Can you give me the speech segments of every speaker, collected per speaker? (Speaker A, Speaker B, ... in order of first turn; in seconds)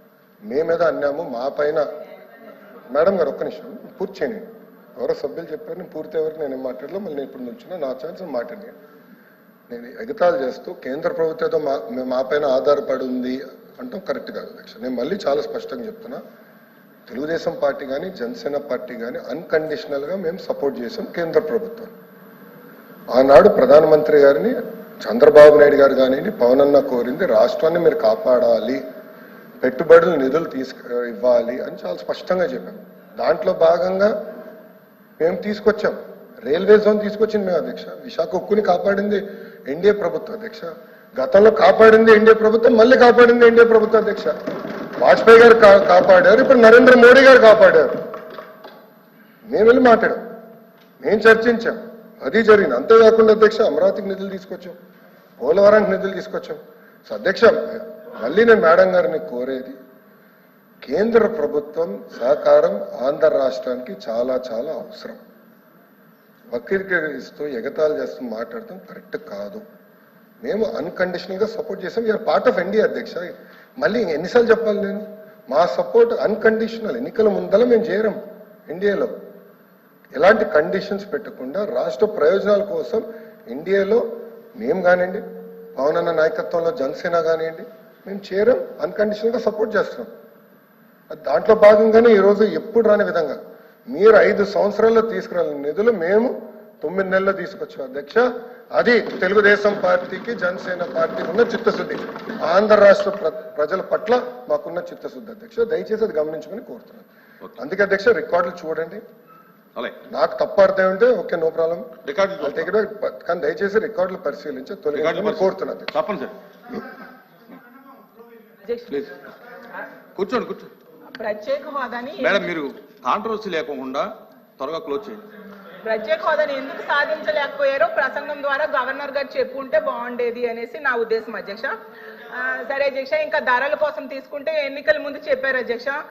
Speaker A: 0.5-1.8, 2.9-4.5, 5.0-8.7, 9.7-16.2, 17.1-21.9, 23.1-28.8, 29.6-34.1, 35.2-44.3, 45.0-47.9, 49.5-50.2, 51.0-54.8, 55.4-59.8, 60.9-65.2, 66.5-69.6, 70.4-79.1, 80.2-84.0, 84.6-85.2, 85.8-90.1, 91.1-93.4, 93.9-109.0, 110.1-115.9
Speaker B: 112.0-112.7, 114.9-116.3, 120.2-120.7, 122.2-124.1, 124.6-125.2
Speaker C: 118.7-118.9, 121.1-122.5, 125.8-131.7, 132.3-136.0